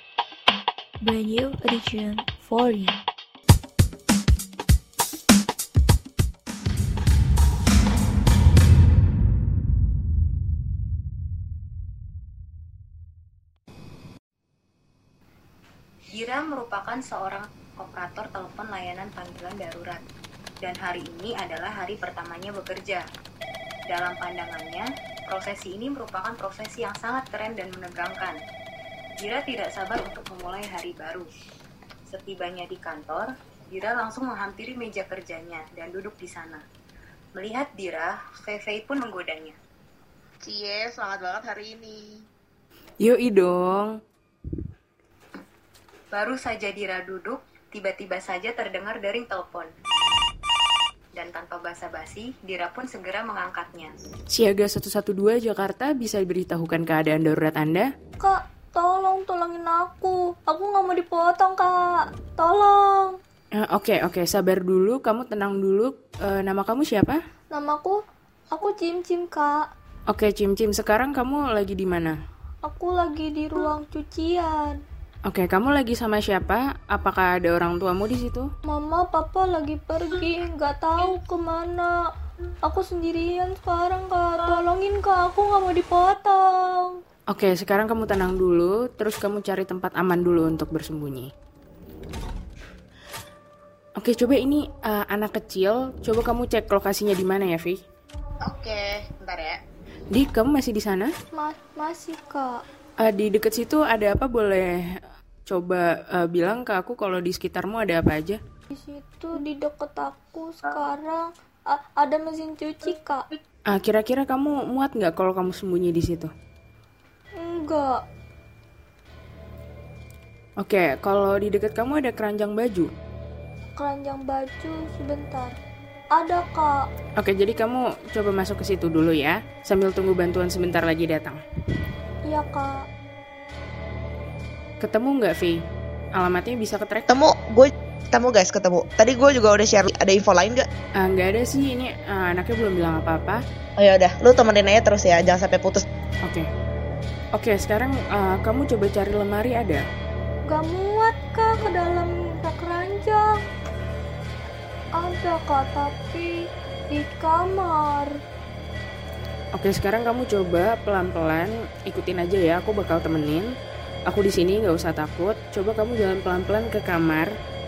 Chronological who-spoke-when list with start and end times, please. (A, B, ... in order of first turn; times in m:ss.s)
0:01.0-0:03.0 A
0:16.1-0:20.0 B
0:20.6-0:23.0 B
0:23.9-0:28.4 B
0:29.2-0:31.3 B
0:32.1-0:36.6 B
0:37.4-0:39.6 B
0:40.4-0:42.1 C
0:43.0-0:44.0 D
0:46.1-0:49.7 B
0:51.2-0:53.9 B
0:54.3-0:57.9 D
0:58.2-1:03.2 E
1:03.5-1:07.2 D
1:07.5-1:08.0 E
1:08.5-1:09.6 E
1:10.1-1:12.2 D
1:12.6-1:14.8 E
1:15.2-1:18.5 D
1:18.6-1:22.0 E
1:22.6-1:26.9 E
1:27.3-1:31.3 D
1:34.0-1:37.8 D
1:38.4-1:39.6 C
1:40.1-1:41.1 D
1:41.3-1:42.6 E
1:43.0-1:44.8 D
1:45.4-1:48.4 D
1:48.7-1:53.2 E
1:53.7-1:56.3 D
1:57.4-1:58.0 E
2:00.6-2:02.9 D
2:03.8-2:05.5 E
2:06.1-2:06.9 E
2:07.2-2:11.4 D
2:12.2-2:12.9 E
2:14.8-2:15.6 D
2:16.1-2:17.1 D
2:17.1-2:20.6 C
2:21.0-2:23.4 D
2:23.8-2:25.8 C
2:27.3-2:29.8 D
2:30.5-2:33.4 E
2:35.0-2:36.3 E
2:36.9-2:38.1 E
2:39.5-2:43.5 D
2:44.1-2:47.3 D